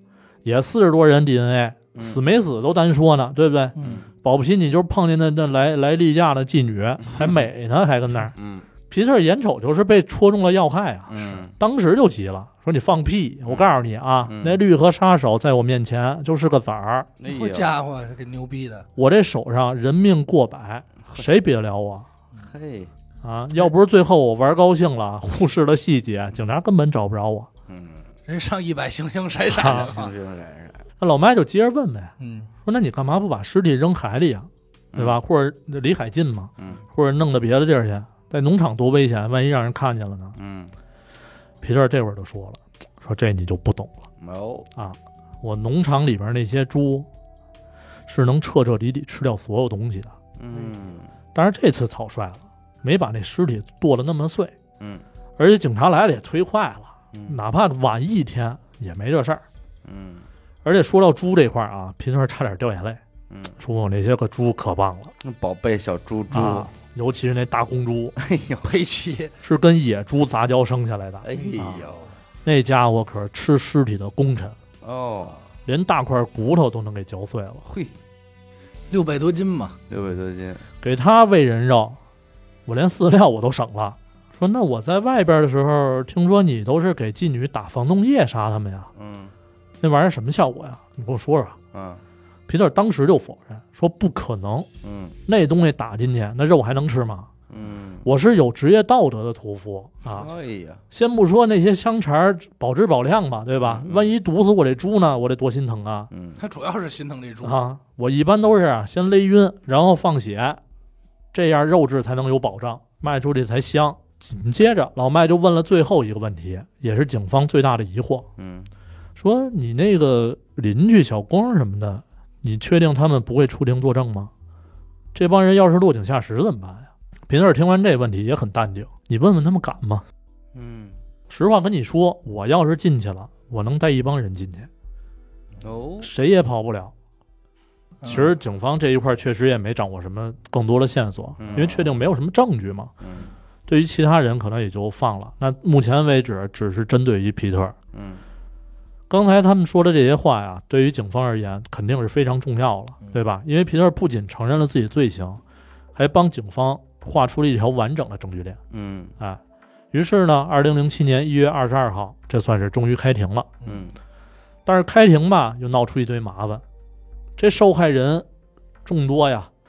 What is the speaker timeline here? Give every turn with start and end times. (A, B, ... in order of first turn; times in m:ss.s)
0:00.4-0:08.4 A
0:01.9-0:02.2 B
0:03.8-0:04.1 B
0:08.3-0:08.7 B
0:08.9-0:17.1 A
0:11.1-0:11.5 B
0:14.2-0:14.6 B
0:17.2-0:17.8 B
0:17.2-0:18.9 C
0:19.0-0:22.1 A
0:22.4-0:22.9 B
0:23.2-0:27.5 A
0:27.7-0:28.1 B
0:28.3-0:30.1 C
0:29.5-0:30.8 B
0:29.6-0:29.9 A
0:31.0-0:32.1 A
0:32.2-0:32.5 C
0:32.6-0:40.4 A
0:34.9-0:35.2 B
0:40.4-0:40.7 B
0:41.6-0:44.0 A
0:44.2-0:44.7 B
0:44.8-0:47.1 A
0:48.1-0:50.2 A
0:50.4-0:51.1 B
0:51.4-0:54.6 A
0:55.4-0:59.4 A
0:57.1-0:57.4 B
0:59.8-1:00.3 B
1:00.6-1:03.0 A
1:03.3-1:03.6 B
1:03.6-1:05.1 A
1:05.2-1:06.7 B
1:06.3-1:08.2 A
1:08.2-1:08.7 B
1:08.6-1:09.3 C
1:09.4-1:11.8 A
1:11.2-1:12.1 B
1:11.4-1:12.0 C
1:12.4-1:14.6 A
1:14.8-1:15.4 B
1:15.7-1:17.6 A
1:17.6-1:18.0 B
1:18.9-1:19.8 C
1:19.9-1:20.6 B
1:20.8-1:22.0 A
1:22.7-1:28.9 A
1:29.0-1:29.3 B
1:29.8-1:31.6 A
1:31.7-1:32.0 B
1:32.5-1:34.7 A
1:34.8-1:35.2 B
1:35.3-1:37.3 A
1:37.5-1:38.1 B
1:38.0-1:40.3 A
1:40.1-1:40.8 B
1:40.9-1:46.1 A
1:43.6-1:44.1 B
1:46.1-1:46.4 B
1:46.4-1:47.6 C
1:47.4-1:50.6 A
1:51.3-1:58.3 A
1:58.4-1:58.7 B
1:59.2-2:04.3 A
2:05.1-2:10.0 A
2:10.5-2:11.0 B
2:11.3-2:14.7 A
2:15.6-2:16.1 B
2:16.0-2:16.9 A
2:18.0-2:18.3 C
2:18.0-2:22.9 A
2:21.4-2:22.0 B
2:23.0-2:23.3 B
2:23.7-2:27.8 A
2:27.9-2:28.2 B
2:29.1-2:35.4 A
2:36.0-2:38.6 A
2:38.7-2:39.1 B
2:39.9-2:43.5 A
2:43.6-2:43.9 C
2:43.6-2:44.0 B
2:44.7-2:46.6 A
2:47.4-2:48.3 A
2:48.8-2:49.5 A